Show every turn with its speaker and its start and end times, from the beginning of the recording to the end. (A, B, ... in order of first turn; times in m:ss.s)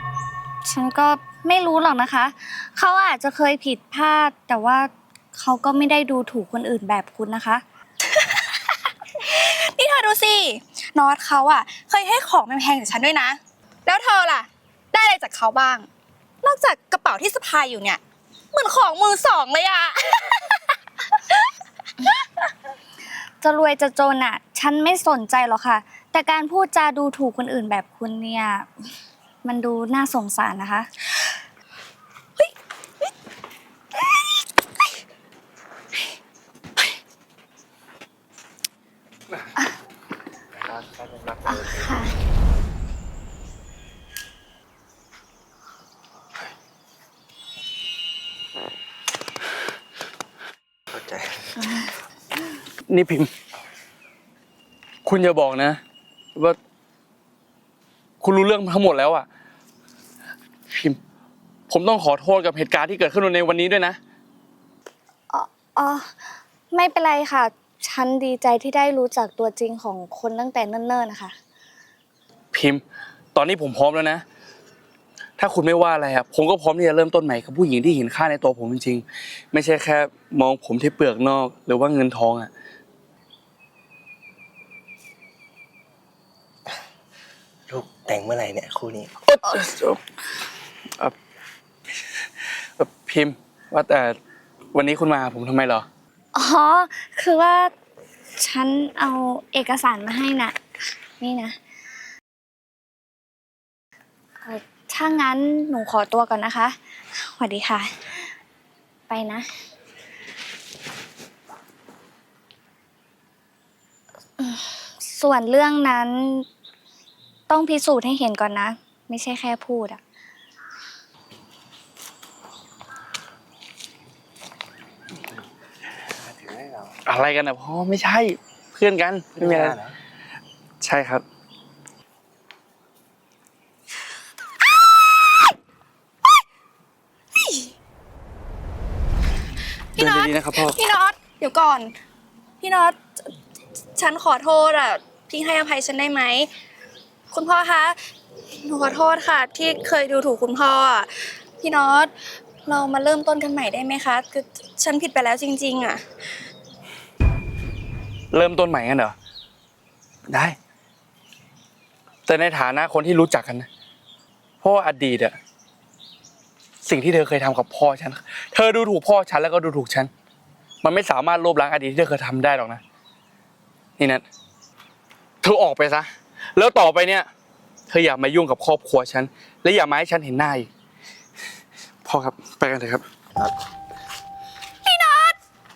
0:00.6-0:07.6 A
0:08.1-0:15.9 B
0:16.4-0:18.0 B
0:18.5-0:20.7 B
0:23.4-0:28.7 A
0:29.4-0:30.9 A
0:40.6-0:41.7 C
0:41.5-0:42.1 A
0:50.9-0:51.6 C
0:52.9-0:53.3 D
0:55.0-0:55.8 D
0:58.2-0:59.3 D
1:00.7-1:01.0 D
1:01.7-1:04.0 D
1:05.3-1:06.2 A
1:06.7-1:11.4 A
1:12.5-1:12.8 D
1:13.3-1:14.2 D
1:15.4-1:22.5 D
1:27.7-1:29.1 C
1:29.3-1:30.0 D
1:32.8-1:34.2 D
1:34.7-1:35.9 D
1:36.3-1:37.7 A
1:38.4-1:40.6 A
1:41.2-1:41.6 A
1:44.4-1:47.9 A
1:49.1-1:49.5 A
1:54.4-1:56.5 A
1:57.5-2:00.0 A
2:06.3-2:06.9 C
2:07.1-2:09.8 D
2:09.4-2:09.9 C
2:10.8-2:11.2 D
2:17.4-2:17.7 B
2:20.0-2:22.0 B
2:20.0-2:20.8 D
2:22.6-2:23.3 B
2:24.0-2:26.5 B
2:27.3-2:28.0 B
2:28.6-2:32.1 B
2:32.6-2:36.0 B
2:38.3-2:39.2 D
2:40.3-2:40.6 D
2:42.3-2:43.7 D
2:44.6-2:45.4 D
2:46.8-2:50.1 D
2:50.8-2:52.8 D
2:54.0-2:54.2 D
2:55.4-2:57.3 D
2:57.9-3:00.7 D
3:02.0-3:03.0 D
3:04.8-3:05.4 B